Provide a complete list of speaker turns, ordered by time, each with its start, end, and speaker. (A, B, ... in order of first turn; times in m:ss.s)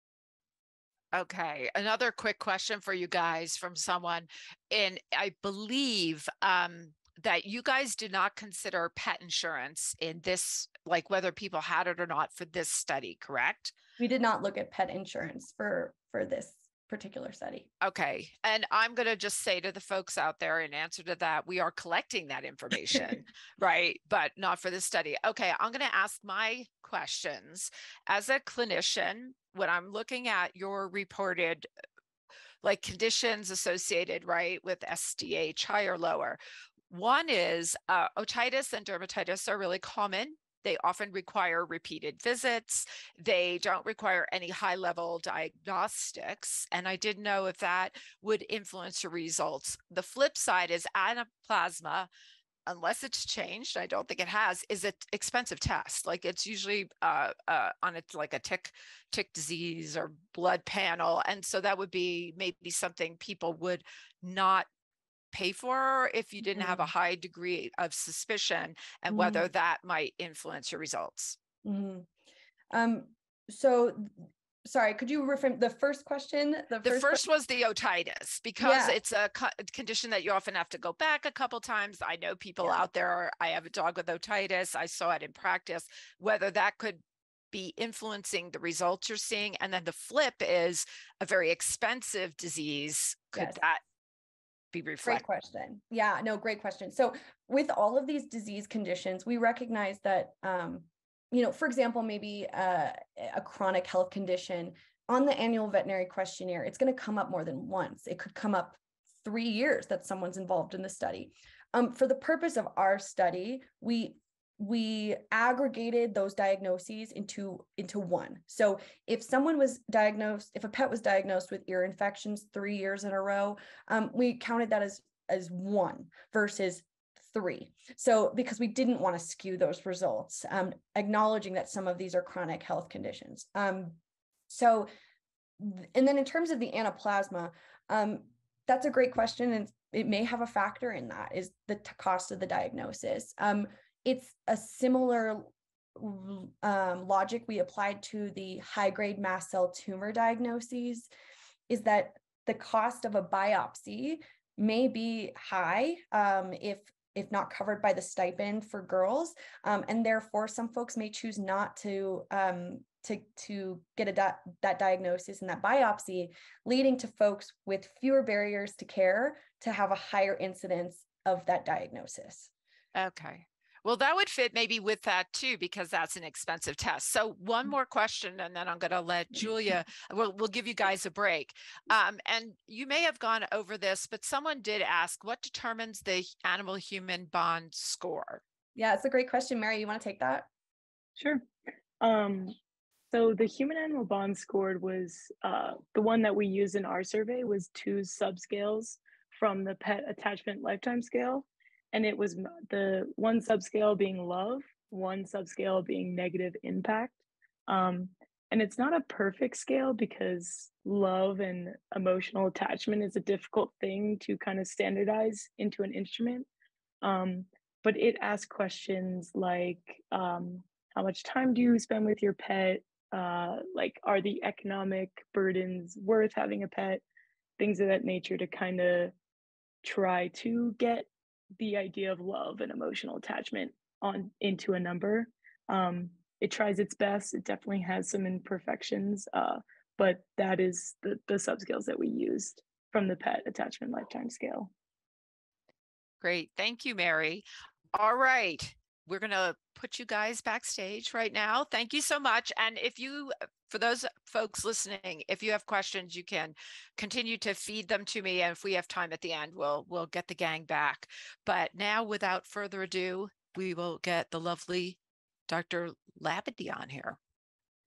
0:01.1-0:13.8 A
0:14.0-0:17.7 B
0:17.8-0:31.7 A
0:32.6-0:36.4 A
0:36.9-0:52.1 A
0:52.7-1:04.7 A
1:05.3-1:11.4 A
1:06.6-1:06.9 B
1:09.1-1:09.5 B
1:11.6-1:12.1 B
1:12.7-1:14.1 B
1:14.6-1:17.2 B
1:16.8-1:27.0 A
1:18.6-1:19.0 B
1:27.5-1:33.8 A
1:34.7-1:35.3 A
1:35.0-2:14.9 B
2:15.6-2:31.1 B
2:31.7-2:52.5 B
2:53.0-3:08.4 A
3:08.8-3:10.5 B
3:11.2-3:11.4 C
3:12.0-3:12.6 C
3:13.1-3:27.2 C
3:27.7-3:36.5 C
3:37.0-3:47.0 C
3:47.6-3:49.1 C
3:49.8-4:04.7 C
4:06.2-4:25.0 A
4:25.5-4:27.2 A